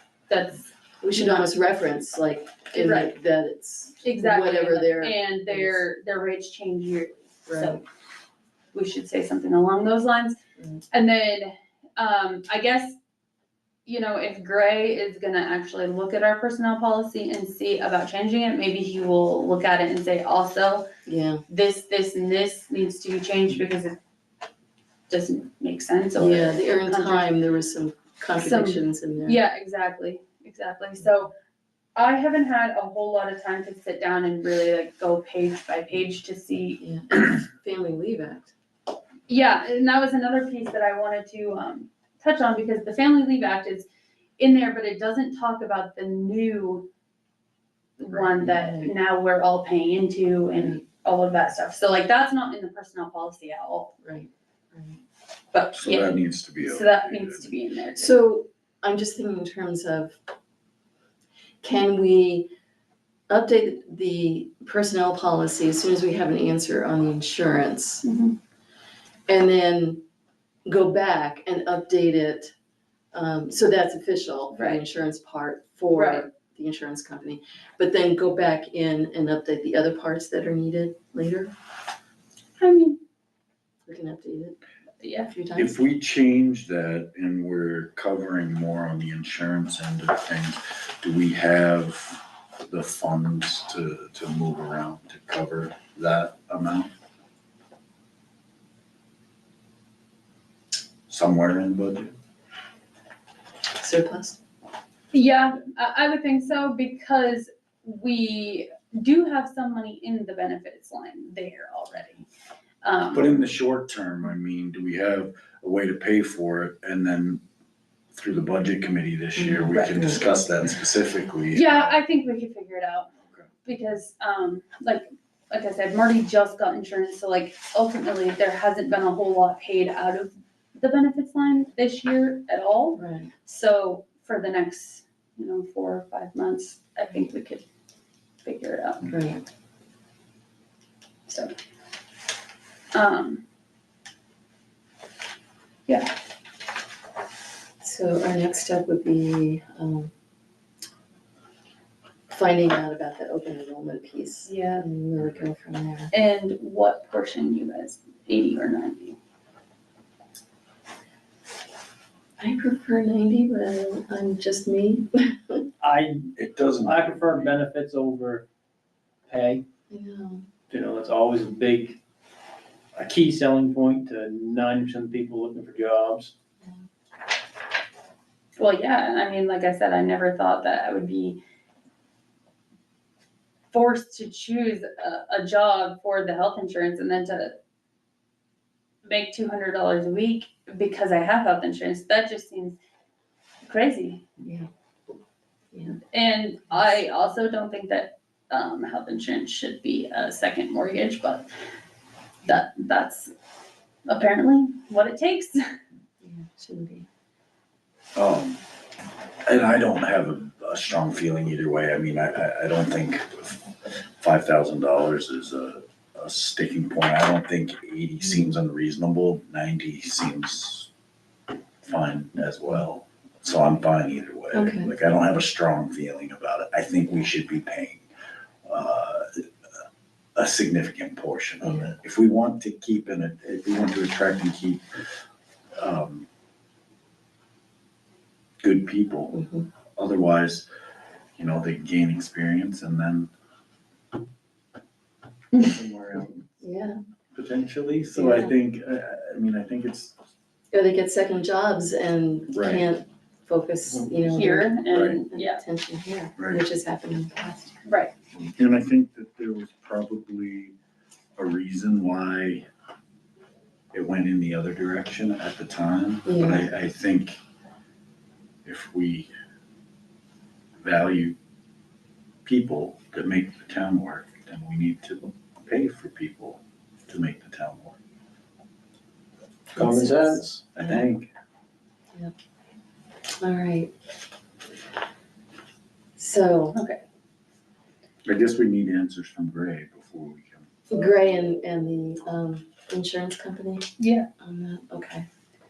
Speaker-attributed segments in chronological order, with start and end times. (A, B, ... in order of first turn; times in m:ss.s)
0:00.3-0:01.5 A
0:01.0-0:05.9 B
0:02.7-0:03.1 A
0:04.0-0:07.8 A
0:07.5-0:07.8 B
0:08.7-0:10.4 A
0:10.6-0:10.9 B
0:10.9-0:13.0 A
0:13.8-0:20.9 A
0:21.1-0:21.4 B
0:21.5-0:24.0 A
0:25.1-0:27.3 A
0:26.2-0:29.4 B
0:28.4-0:31.3 A
0:32.0-0:36.8 A
0:36.8-0:38.5 B
0:39.3-0:46.9 A
0:48.0-0:53.9 A
0:48.4-0:49.0 B
0:54.0-0:55.0 B
0:55.5-0:58.2 A
0:55.7-0:57.5 C
0:58.0-1:00.2 B
1:01.6-1:02.5 B
1:03.3-1:08.0 B
1:08.0-1:08.4 A
1:09.3-1:10.0 B
1:10.7-1:12.5 B
1:13.1-1:21.5 B
1:14.5-1:14.8 A
1:15.9-1:16.3 A
1:22.6-1:23.0 A
1:23.9-1:24.6 B
1:25.0-1:25.3 A
1:25.2-1:25.8 B
1:25.6-1:36.9 C
1:41.1-1:42.1 C
1:43.8-1:44.4 B
1:45.1-1:52.2 A
1:52.8-1:53.4 A
1:53.1-1:57.4 C
1:58.2-2:02.0 C
1:59.4-2:00.2 B
2:01.5-2:03.1 A
2:03.6-2:17.7 A
2:13.0-2:13.3 B
2:18.4-2:19.1 A
2:19.1-2:19.4 B
2:21.3-2:21.5 A
2:22.9-2:23.4 A
2:25.9-2:26.1 A
2:27.8-2:30.1 B
2:32.3-2:36.1 B
2:34.5-2:34.8 A
2:36.1-2:39.2 A
2:42.4-2:45.7 B
2:45.8-2:48.5 D
2:46.4-2:47.6 C
2:49.3-2:49.6 D
2:49.9-2:50.5 B
2:50.7-2:52.0 D
2:53.0-2:56.3 D
2:58.6-3:01.4 A
3:03.7-3:07.6 A
3:09.0-3:12.8 A
3:13.6-3:14.2 A
3:14.4-3:14.7 B
3:15.7-3:16.0 B
3:16.1-3:21.5 A
3:22.4-3:23.3 A
3:24.1-3:25.6 A
3:26.2-3:27.1 B
3:28.2-3:28.6 C
3:29.5-3:40.9 C
3:38.2-3:38.6 B
3:41.8-3:48.0 C
3:44.5-3:44.9 B
3:48.7-3:49.4 C
3:50.4-3:54.8 C
3:51.6-3:51.9 B
3:55.8-3:56.3 C
3:58.6-3:59.4 C
3:59.3-3:59.7 B
4:00.0-4:00.7 C
4:01.4-4:03.3 C
4:05.6-4:06.4 C
4:06.6-4:07.0 B
4:07.4-4:10.2 C
4:08.2-4:08.6 B
4:10.7-4:14.7 B
4:12.5-4:12.8 C
4:14.3-4:15.6 A
4:14.9-4:15.2 C
4:15.3-4:18.5 B
4:16.4-4:16.6 C
4:17.9-4:18.1 A
4:18.6-4:20.8 C
4:21.4-4:22.7 C
4:23.9-4:27.4 C
4:26.3-4:26.7 B
4:28.6-4:29.3 C
4:30.8-4:31.4 C
4:32.4-4:38.0 C
4:39.7-4:41.0 B
4:39.8-4:40.6 D
4:40.8-4:41.3 C
4:43.4-4:43.9 B
4:46.2-4:46.8 B
4:46.7-4:47.0 A
4:48.2-4:50.9 C
4:50.9-4:53.9 B
4:54.0-4:54.3 A
4:54.4-4:55.3 B